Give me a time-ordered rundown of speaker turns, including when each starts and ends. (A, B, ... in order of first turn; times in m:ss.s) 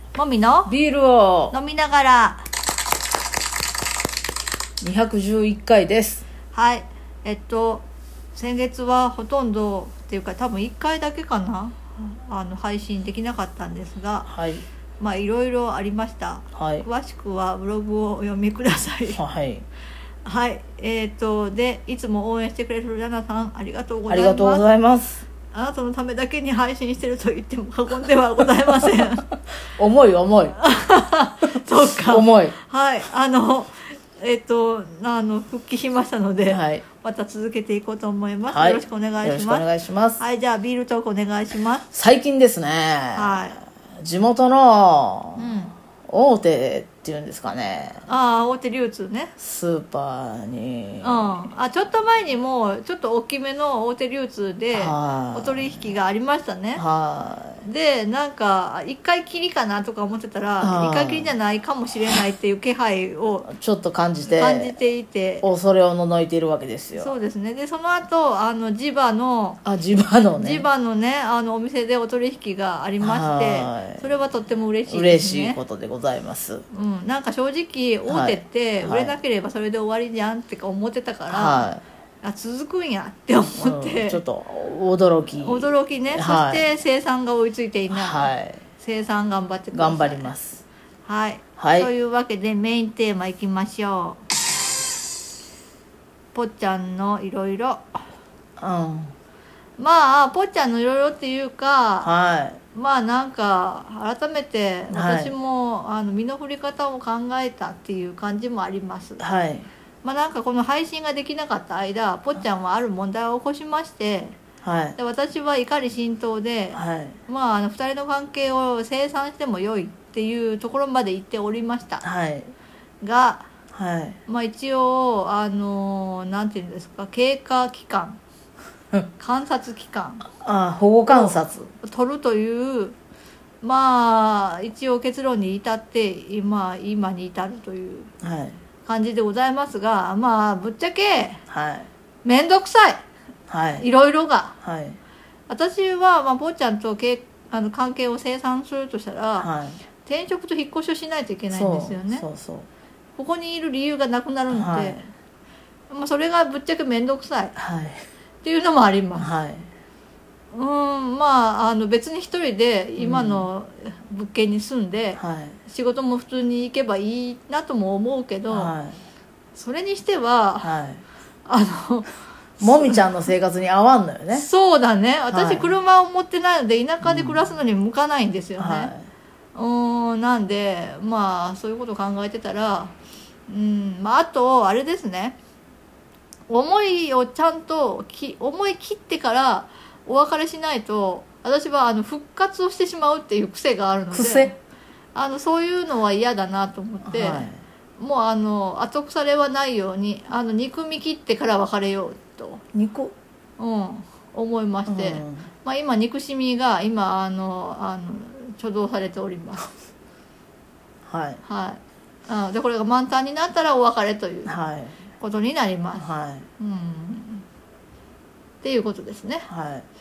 0:00.1-0:00.7 A
0:00.6-0:01.6 B
0:01.5-0:02.5 A
0:04.8-0:06.2 B
0:06.5-0:14.3 A
0:14.2-0:14.6 B
0:15.0-0:19.2 A
0:16.5-0:16.8 B
0:19.2-0:19.6 B
0:20.2-0:24.6 A
0:24.1-0:25.2 B
0:25.5-0:29.2 A
0:29.8-0:30.6 B
0:30.6-0:39.7 A
0:32.0-0:32.5 B
0:36.5-0:36.8 B
0:38.5-0:40.2 B
0:40.2-0:41.8 A
0:41.9-0:45.5 B
0:43.1-0:43.6 A
0:45.4-0:45.7 A
0:46.1-0:48.0 B
0:48.1-0:49.3 A
0:49.4-0:51.5 B
0:51.0-0:56.8 A
0:54.7-0:55.8 B
0:56.8-0:57.6 B
0:57.6-1:03.5 A
1:00.6-1:01.3 B
1:03.4-1:04.7 B
1:04.2-1:05.4 A
1:05.4-1:07.1 B
1:07.0-1:09.6 A
1:09.6-1:10.7 B
1:10.3-1:15.6 A
1:13.0-1:14.0 B
1:14.9-1:16.6 B
1:16.7-1:21.7 A
1:18.1-1:19.1 B
1:21.3-1:21.8 B
1:22.2-1:24.2 A
1:23.6-1:26.7 B
1:25.4-1:30.3 A
1:27.9-1:28.6 B
1:29.7-1:30.6 B
1:31.0-1:34.2 A
1:31.6-1:31.9 B
1:36.3-1:38.0 A
1:38.6-1:39.1 B
1:39.8-1:42.1 A
1:42.0-1:42.6 B
1:42.7-1:49.2 A
1:44.9-1:45.3 B
1:49.2-1:49.7 B
1:50.0-1:54.4 A
1:54.6-1:55.0 B
1:55.0-2:02.0 A
1:56.7-1:57.2 B
2:02.0-2:02.5 B
2:03.0-2:03.5 A
2:03.7-2:04.2 B
2:04.3-2:08.2 A
2:09.2-2:10.3 A
2:10.4-2:11.7 B
2:11.1-2:13.0 A
2:13.6-2:18.1 A
2:18.2-2:18.6 B
2:18.8-2:21.4 A
2:21.5-2:21.9 B
2:22.2-2:23.0 A
2:23.5-2:23.8 B
2:23.8-2:24.6 A
2:24.6-2:25.0 B
2:25.5-2:29.5 A
2:29.4-2:29.8 B
2:30.0-2:32.2 A
2:31.5-2:32.6 B
2:33.2-2:35.0 A
2:34.5-2:35.0 B
2:35.9-2:37.5 A
2:37.6-2:38.0 B
2:38.4-2:39.3 A
2:39.2-2:39.7 B
2:40.5-2:48.7 A
2:43.0-2:43.5 B
2:45.2-2:45.6 B
2:48.5-2:49.0 B
2:49.5-2:50.7 A
2:50.6-2:51.0 B
2:51.4-2:52.1 A
2:52.6-2:53.2 A
2:52.6-2:54.5 B
2:54.3-2:58.9 A
2:55.3-2:55.7 B
2:57.0-2:57.4 B
2:58.6-2:59.0 B
2:59.5-3:02.9 A
3:03.5-3:05.4 A
3:06.5-3:14.6 A
3:14.1-3:14.5 B
3:15.1-3:22.6 A
3:17.0-3:17.6 B
3:22.7-3:23.1 B
3:23.6-3:29.6 A
3:24.9-3:25.5 B
3:31.1-3:31.4 B
3:31.4-3:34.5 A
3:34.5-3:35.0 B
3:35.2-3:36.0 A
3:36.0-3:36.5 B
3:36.6-3:37.4 A
3:38.6-3:39.5 A
3:39.5-3:39.8 B